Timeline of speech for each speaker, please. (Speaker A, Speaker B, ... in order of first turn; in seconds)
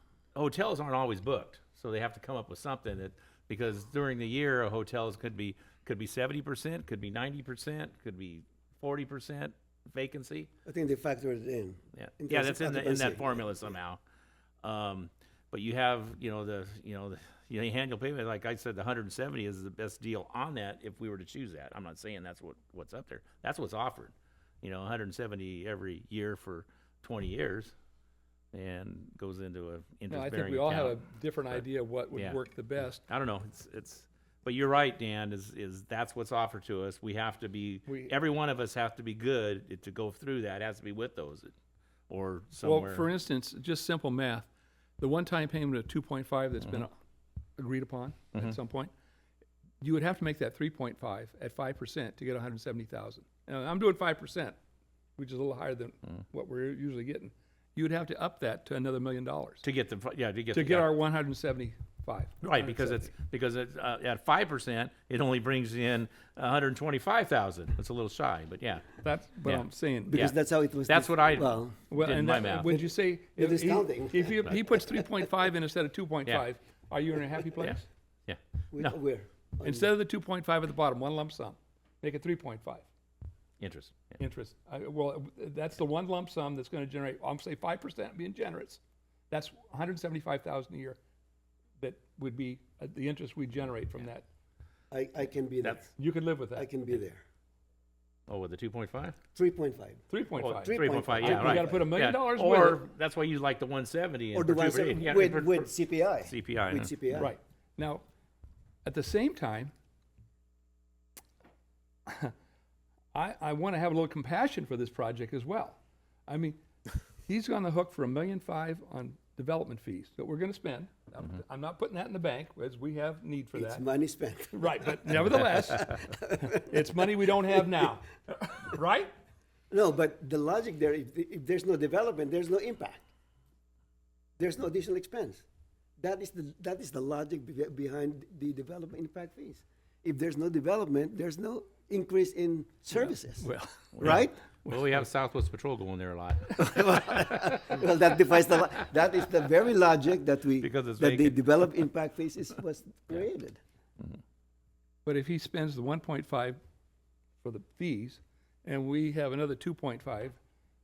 Speaker A: 0.3-10.5, 11.9-14.0, 14.6-27.7, 28.5-32.4, 33.1-41.5, 42.1-43.1, 59.6-60.9, 62.4-70.3, 70.9-72.7, 77.6-79.0, 83.6-84.2, 95.6-95.9, 98.3-99.2, 100.4-105.7, 106.2-107.2, 143.9-147.3, 150.6-151.5
Speaker B: 10.7-13.7, 70.1-71.8, 73.4-75.0, 78.7-79.9, 94.9-95.9, 96.5-97.2, 99.3-101.9, 104.3-107.3, 123.5-126.8, 129.7-133.0, 134.4-135.4, 136.0-144.4, 146.6-153.6
Speaker C: 30.1-33.0, 37.9-38.1, 42.6-44.5, 45.0-46.9, 47.6-48.9, 49.8-54.5, 55.2-59.6, 60.5-63.1, 69.0-70.3, 71.9-77.8, 79.6-82.8, 84.2-88.8, 89.3-91.0, 91.8-94.2, 96.0-96.7, 100.1-102.8, 107.1-108.0, 108.8-109.7, 112.0-112.3, 113.1-116.6, 117.3-123.8, 124.5-129.1, 143.4-143.9, 155.1-156.6, 157.4-160.4